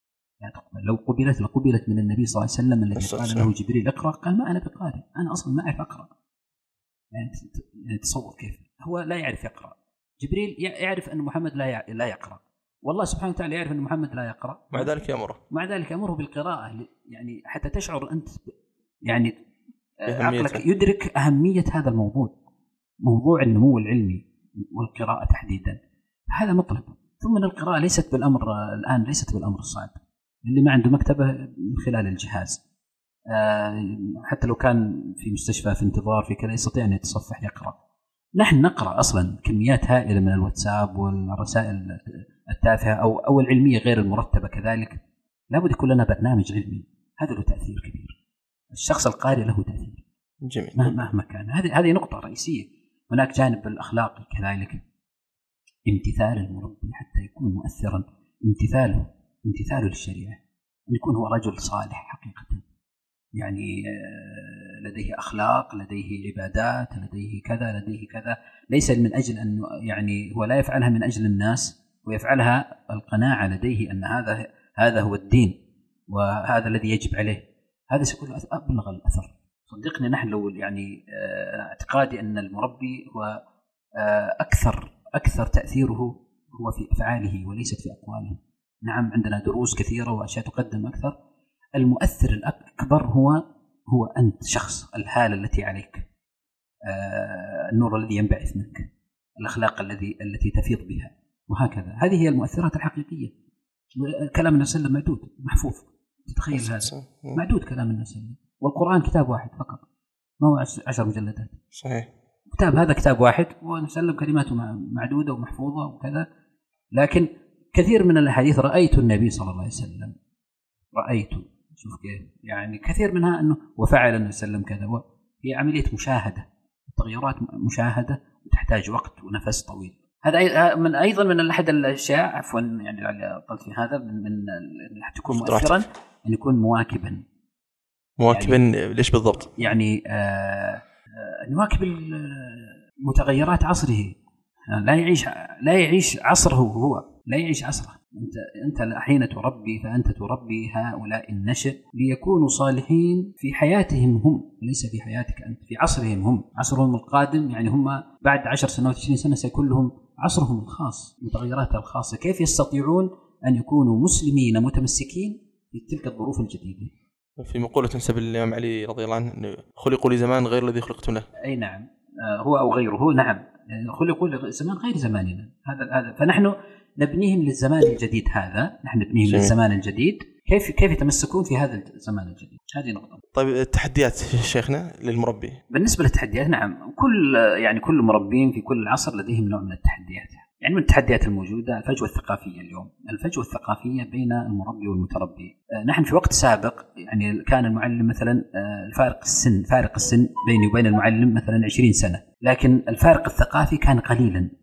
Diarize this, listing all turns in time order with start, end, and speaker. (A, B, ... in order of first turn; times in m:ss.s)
0:00.4-0:06.1 A
0:03.0-0:03.5 B
0:07.1-0:18.5 A
0:14.7-0:15.4 B
0:19.0-0:19.3 A
0:20.0-0:22.3 A
0:20.1-0:20.6 B
0:23.0-0:25.8 A
0:26.3-0:29.9 A
0:30.4-0:32.6 A
0:33.3-0:37.7 A
0:38.4-0:45.0 A
0:45.5-0:48.2 A
0:48.7-0:50.0 A
0:50.4-0:51.0 B
0:50.8-0:54.8 A
0:55.9-1:00.4 A
1:00.9-1:02.6 A
1:03.4-1:15.5 A
1:16.1-1:23.4 A
1:24.0-1:31.2 A
1:31.8-1:36.0 A
1:36.8-1:43.3 A
1:44.0-1:49.8 A
1:46.5-1:47.4 B
1:50.4-1:51.6 A
1:51.7-1:52.1 B
1:52.5-1:56.2 A
1:56.9-2:00.1 A
2:00.9-2:17.2 A
2:15.3-2:15.8 B
2:18.2-2:19.6 B
2:18.3-2:18.6 A
2:19.4-2:24.2 A
2:24.7-2:46.9 A
2:47.4-2:51.2 B
2:51.4-3:03.2 A
2:59.3-2:59.5 B
3:03.3-3:05.6 B
3:05.7-3:24.5 A